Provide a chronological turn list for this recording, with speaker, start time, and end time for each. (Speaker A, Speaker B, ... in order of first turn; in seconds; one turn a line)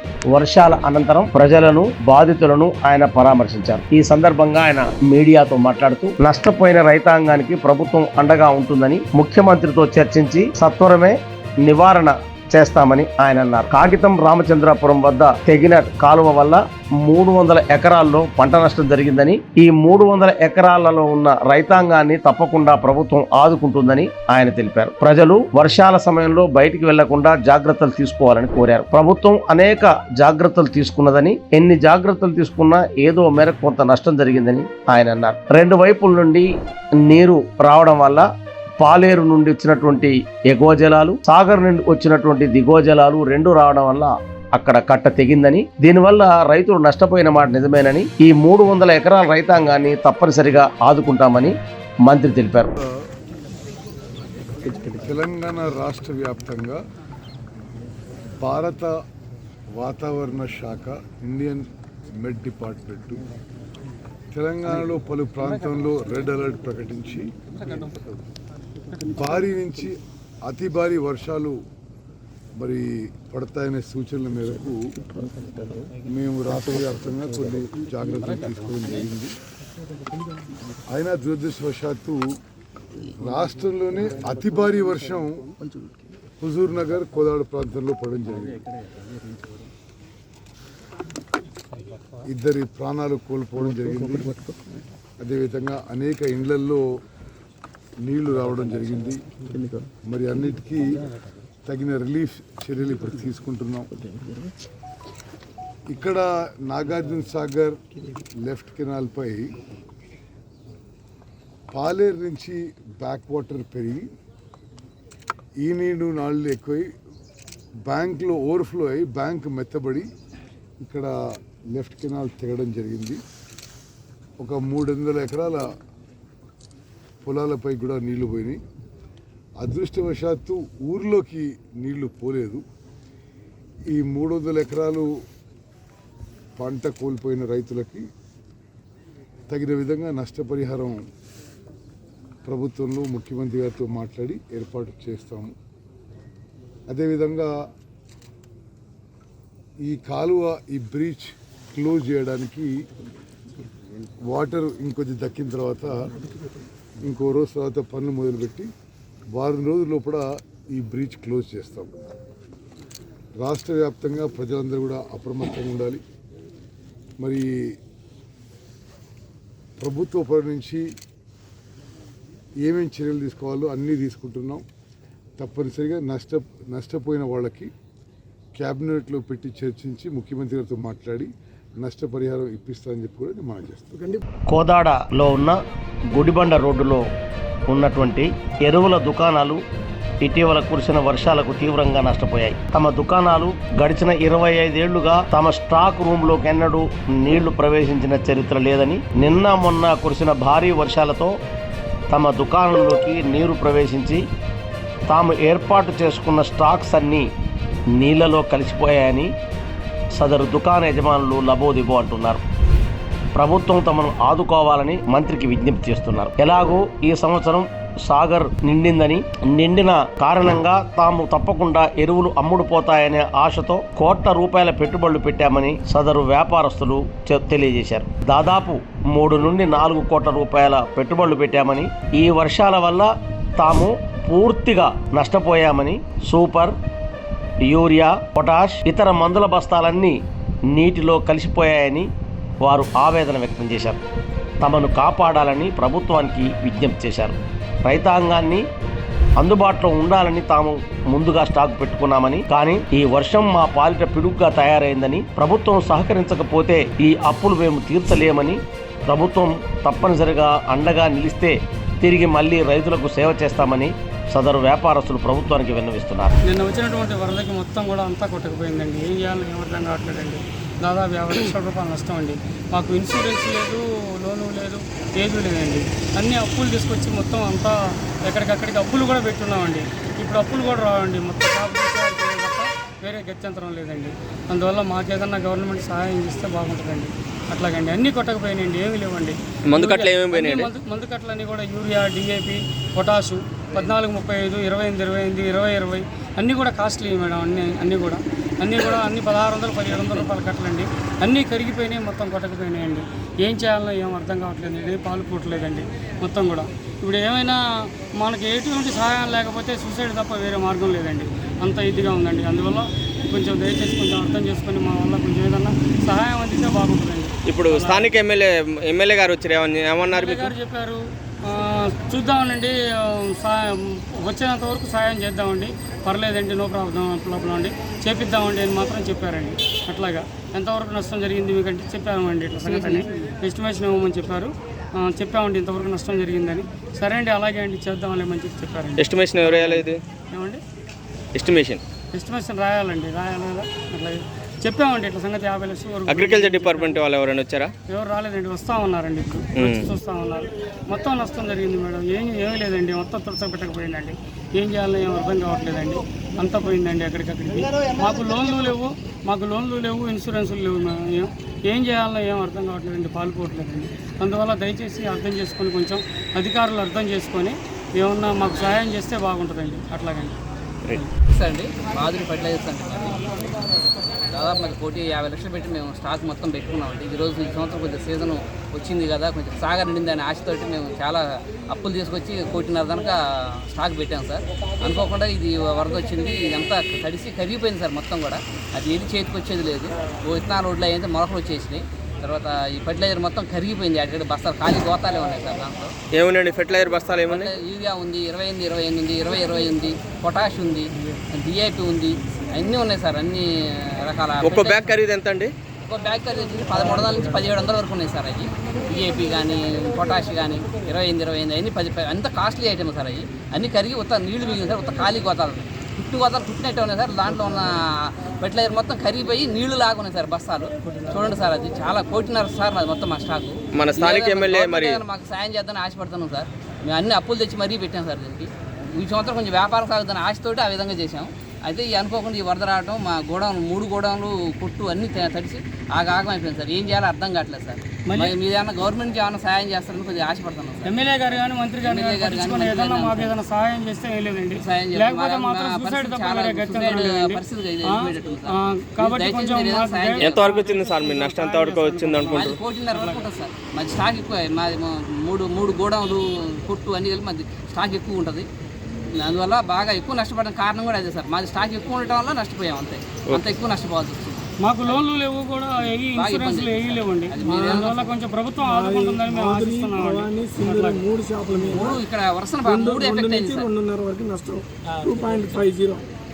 Speaker A: 0.3-36.5
Speaker A: 37.0-38.2
Speaker A: 38.8-51.5
Speaker A: 52.0-52.7
Speaker B: 54.8-56.8
Speaker B: 58.4-59.0
Speaker B: 59.7-63.2
Speaker B: 64.3-67.3
Speaker B: 69.1-71.6
Speaker B: 72.6-75.0
Speaker B: 76.0-79.3
Speaker B: 80.9-82.3
Speaker B: 83.1-85.5
Speaker B: 86.4-88.6
Speaker B: 92.2-94.4
Speaker B: 95.2-96.8
Speaker B: 98.0-99.4
Speaker B: 100.0-100.9
Speaker B: 101.6-104.0
Speaker B: 105.9-107.8
Speaker B: 108.4-109.5
Speaker B: 111.7-114.1
Speaker B: 115.6-116.9
Speaker B: 117.8-120.1
Speaker B: 120.8-121.1
Speaker B: 121.7-123.2
Speaker B: 124.4-125.7
Speaker B: 127.2-128.6
Speaker B: 129.6-132.6
Speaker B: 133.9-135.1
Speaker B: 136.6-138.1
Speaker B: 139.5-141.0
Speaker B: 142.4-145.5
Speaker B: 146.9-147.6
Speaker B: 149.8-152.8
Speaker B: 154.2-156.0
Speaker B: 157.1-158.7
Speaker B: 159.3-161.9
Speaker B: 163.4-166.0
Speaker B: 167.2-167.8
Speaker B: 169.8-170.9
Speaker B: 172.6-174.7
Speaker B: 175.4-177.7
Speaker B: 178.6-184.0
Speaker A: 184.5-185.6
Speaker A: 186.1-187.1
Speaker A: 187.7-189.6
Speaker A: 190.2-201.3
Speaker A: 202.1-204.2
Speaker A: 205.1-207.3
Speaker A: 207.9-209.3
Speaker A: 210.2-212.4
Speaker A: 213.3-236.8
Speaker A: 237.6-242.1
Speaker A: 242.6-244.0
Speaker A: 244.6-248.7
Speaker A: 249.4-266.3
Speaker C: 266.5-307.6
Speaker D: 289.7-290.7
Speaker C: 308.2-318.1
Speaker D: 317.5-320.6
Speaker C: 320.1-340.6
Speaker E: 332.6-333.1
Speaker D: 339.0-340.0
Speaker D: 341.4-341.8
Speaker C: 342.1-347.0
Speaker D: 346.1-347.7
Speaker C: 347.9-370.4
Speaker D: 349.6-349.9
Speaker E: 371.3-373.4
Speaker E: 374.3-395.9
Speaker D: 396.1-397.5
Speaker E: 397.3-405.0
Speaker D: 404.4-405.5
Speaker E: 405.9-440.9
Speaker D: 423.8-425.0
Speaker C: 438.1-438.4
Speaker C: 440.8-453.2
Speaker E: 441.8-443.3
Speaker E: 444.6-450.5
Speaker D: 450.2-452.6
Speaker E: 452.3-458.5
Speaker E: 459.2-465.0
Speaker C: 464.6-471.0
Speaker E: 466.1-468.1
Speaker F: 468.6-472.0
Speaker E: 471.7-473.7
Speaker F: 472.6-476.0